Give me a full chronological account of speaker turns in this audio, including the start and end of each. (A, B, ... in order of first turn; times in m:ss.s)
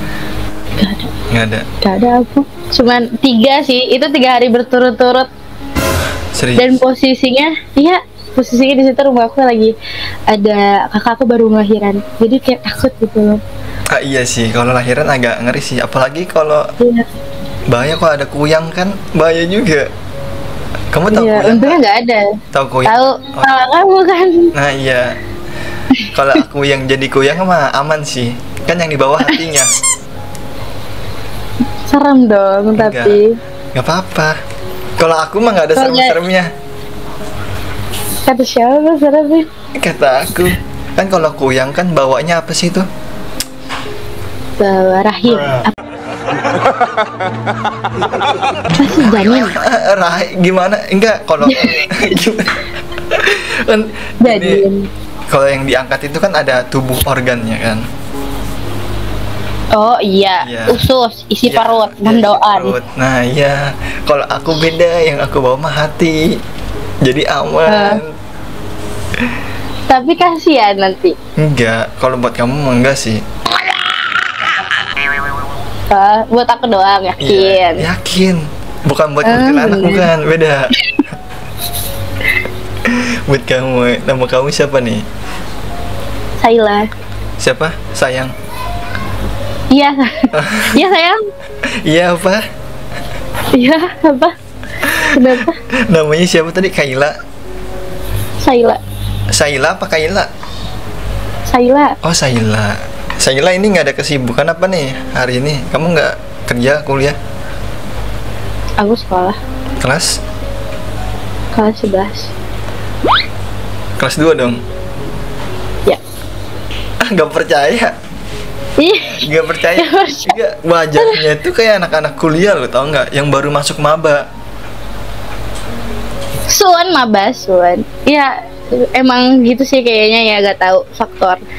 0:00.8-0:01.1 A
0:01.3-0:01.6 B
0:01.8-0:05.3 A
0:06.3-0:06.7 B
0:06.6-0:09.7 A
0:10.3-0:13.4 A
0:13.9-0:16.6 B
0:17.7-0:19.9 B
0:20.9-0:21.8 B
0:21.1-0:22.2 A
0:22.5-0:23.6 B
0:22.9-0:24.5 A
0:24.5-0:25.2 B
0:26.1-0:29.7 B
0:31.9-0:33.3 A
0:32.8-0:33.2 B
0:33.7-0:34.3 B
0:35.0-0:36.5 B
0:35.8-0:36.2 A
0:38.2-0:39.4 A
0:39.8-0:42.8 B
0:44.6-0:45.7 A
0:48.8-0:49.6 A
0:48.9-0:52.6 B
0:53.1-0:54.6 B
0:54.2-0:54.9 A
0:55.3-0:57.8 B
0:59.7-1:02.7 A
1:00.4-1:00.8 B
1:01.5-1:06.4 B
1:07.0-1:08.1 B
1:07.7-1:08.0 A
1:09.9-1:11.1 A
1:11.4-1:13.2 B
1:15.9-1:17.8 A
1:17.2-1:20.7 B
1:19.2-1:20.1 A
1:22.9-1:25.0 B
1:26.4-1:26.8 A
1:27.4-1:28.3 B
1:29.7-1:30.1 A
1:30.3-1:30.8 B
1:30.7-1:31.2 A
1:31.8-1:32.4 B
1:33.5-1:34.3 A
1:35.0-1:35.6 A
1:35.9-1:37.2 B
1:38.4-1:38.8 A
1:39.3-1:40.3 B
1:41.5-1:41.9 A
1:42.0-1:47.2 B
1:48.8-1:49.4 A
1:49.8-1:50.1 B
1:51.5-1:52.3 A
1:54.0-1:54.6 B
1:57.0-1:57.9 B
1:58.8-1:59.2 A
1:59.1-2:04.2 B
1:59.8-2:00.3 A
2:06.5-2:08.3 A
2:08.9-2:11.4 A